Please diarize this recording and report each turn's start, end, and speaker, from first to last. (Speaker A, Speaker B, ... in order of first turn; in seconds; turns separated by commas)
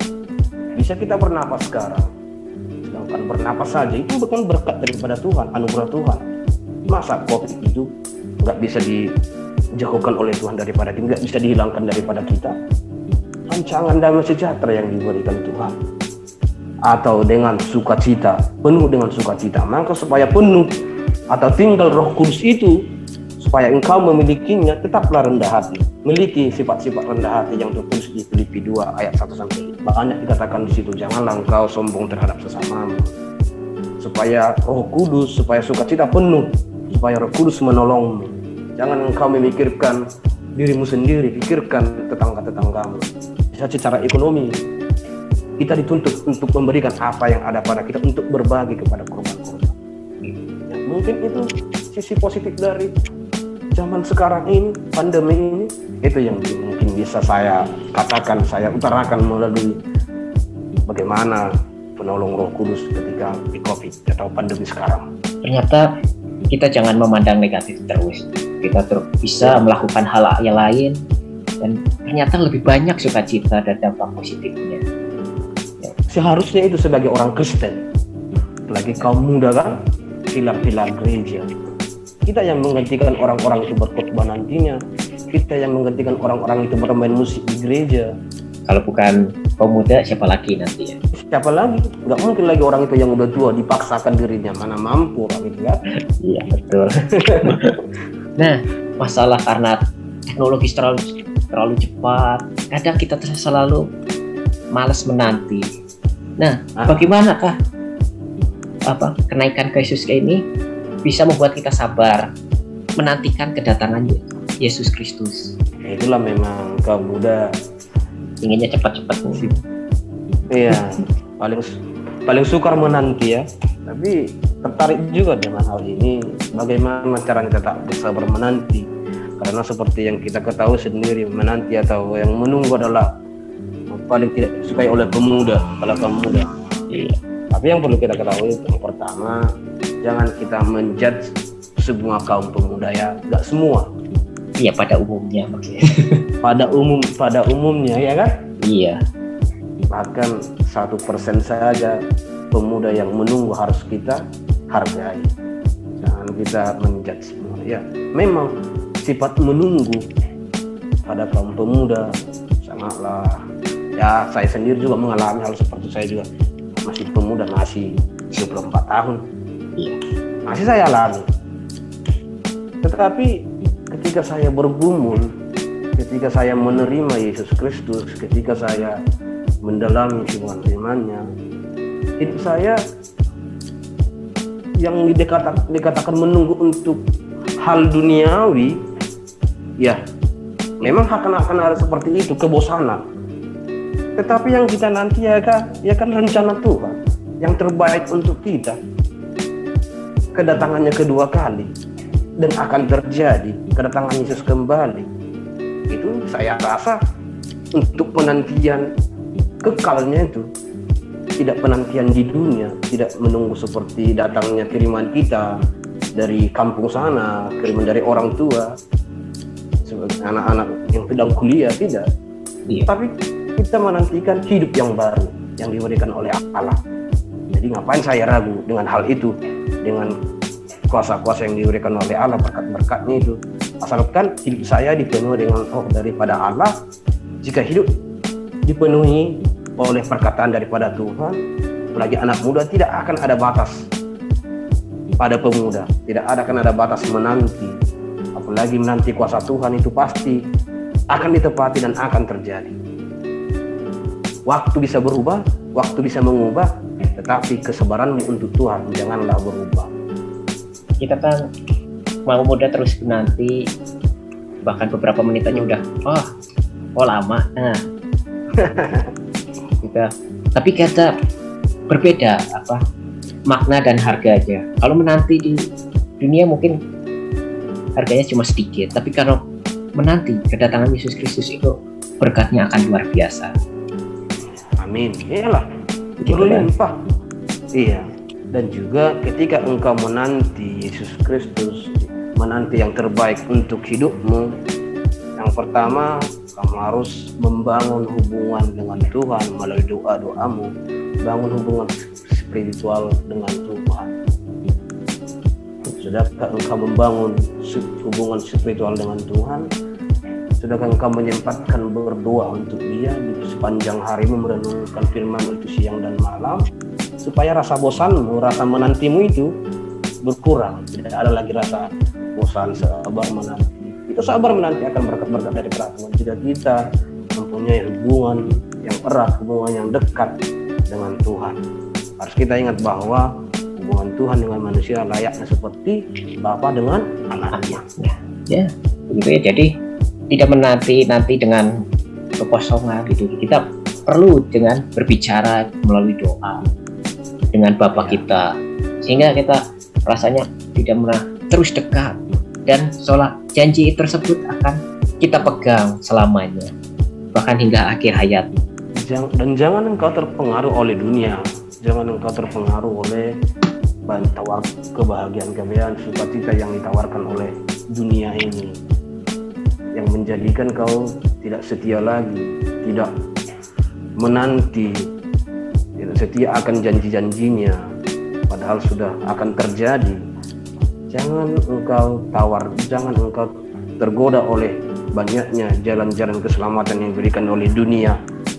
Speaker A: 0.8-2.1, Speaker A: 2.8-6.2, Speaker A: 6.9-7.8, Speaker A: 8.4-9.0, Speaker A: 9.8-12.5, Speaker A: 13.5-15.7, Speaker A: 16.9-20.7, Speaker A: 21.3-22.7, Speaker A: 23.4-33.1, Speaker A: 34.0-40.0, Speaker A: 40.5-44.5, Speaker A: 45.6-49.7, Speaker A: 50.7-52.9, Speaker A: 53.7-59.7, Speaker A: 60.9-61.4, Speaker A: 62.0-65.0, Speaker B: 65.4-65.8, Speaker B: 66.5-70.9, Speaker B: 71.6-74.8, Speaker A: 76.1-77.7, Speaker A: 78.7-79.7, Speaker A: 80.3-81.4, Speaker A: 82.2-84.8, Speaker A: 85.3-88.1, Speaker B: 88.7-91.0, Speaker A: 91.3-95.8, Speaker B: 96.2-97.8, Speaker A: 97.2-97.5, Speaker B: 98.4-99.8, Speaker B: 100.3-103.8, Speaker B: 104.8-105.6, Speaker B: 106.4-107.5, Speaker A: 106.8-107.0, Speaker B: 108.9-110.4, Speaker B: 111.0-112.2, Speaker B: 113.0-115.5, Speaker A: 115.9-117.4, Speaker B: 118.4-119.5, Speaker A: 120.5-121.7, Speaker A: 122.3-128.8, Speaker A: 129.4-133.1, Speaker A: 133.9-136.5, Speaker B: 136.9-137.2, Speaker A: 137.5-139.4, Speaker A: 140.0-141.2, Speaker A: 141.8-143.8, Speaker B: 144.6-146.2, Speaker A: 146.4-148.3, Speaker B: 148.6-149.0, Speaker A: 149.9-151.9, Speaker A: 152.5-154.2, Speaker A: 154.7-155.3, Speaker A: 156.0-158.5, Speaker A: 159.0-160.0, Speaker A: 161.0-162.1, Speaker A: 162.6-163.3, Speaker A: 164.0-166.2, Speaker A: 166.9-169.2, Speaker A: 170.5-171.2, Speaker A: 172.8-173.3, Speaker A: 173.9-175.2, Speaker A: 176.0-178.9, Speaker A: 179.6-181.2, Speaker A: 182.2-182.8, Speaker A: 184.8-187.0, Speaker A: 187.6-188.7, Speaker A: 190.8-193.0, Speaker A: 194.2-198.7, Speaker A: 200.3-201.7, Speaker A: 202.4-205.1, Speaker A: 205.9-207.0, Speaker A: 207.8-208.8, Speaker A: 209.6-210.4, Speaker A: 211.4-215.5, Speaker A: 216.2-218.7, Speaker A: 219.8-222.0, Speaker A: 222.9-226.8, Speaker A: 227.5-229.3, Speaker A: 229.8-230.1, Speaker A: 230.9-236.7, Speaker A: 237.4-237.9, Speaker A: 238.7-241.4, Speaker A: 241.9-243.7, Speaker A: 245.2-247.7, Speaker A: 248.4-250.4, Speaker A: 251.1-252.8, Speaker A: 254.5-259.9, Speaker B: 261.0-261.4, Speaker B: 262.3-263.5, Speaker B: 264.6-266.2, Speaker A: 265.5-265.8, Speaker B: 267.0-267.8, Speaker A: 268.6-269.1, Speaker B: 269.8-271.1, Speaker B: 271.9-272.8, Speaker B: 273.5-275.6, Speaker B: 276.2-276.7, Speaker B: 278.0-279.4, Speaker B: 280.0-283.5, Speaker A: 284.8-285.6, Speaker B: 286.2-286.7, Speaker A: 286.3-286.9, Speaker A: 287.8-294.5, Speaker A: 295.4-300.7, Speaker A: 301.2-304.1, Speaker A: 306.0-309.6, Speaker A: 310.6-316.6, Speaker A: 317.2-319.5, Speaker A: 320.2-326.8, Speaker A: 327.4-330.3, Speaker A: 330.9-331.6, Speaker A: 332.2-337.8, Speaker B: 337.5-339.7, Speaker B: 340.3-341.6, Speaker B: 342.4-346.6, Speaker B: 347.5-348.5, Speaker A: 347.9-348.2, Speaker B: 349.0-352.1, Speaker B: 352.7-356.7, Speaker B: 357.3-358.5, Speaker A: 359.0-363.3, Speaker A: 364.1-368.7, Speaker A: 370.0-373.1, Speaker A: 374.2-374.9, Speaker A: 376.0-377.8, Speaker A: 378.5-380.2, Speaker A: 381.1-383.5, Speaker A: 384.0-388.1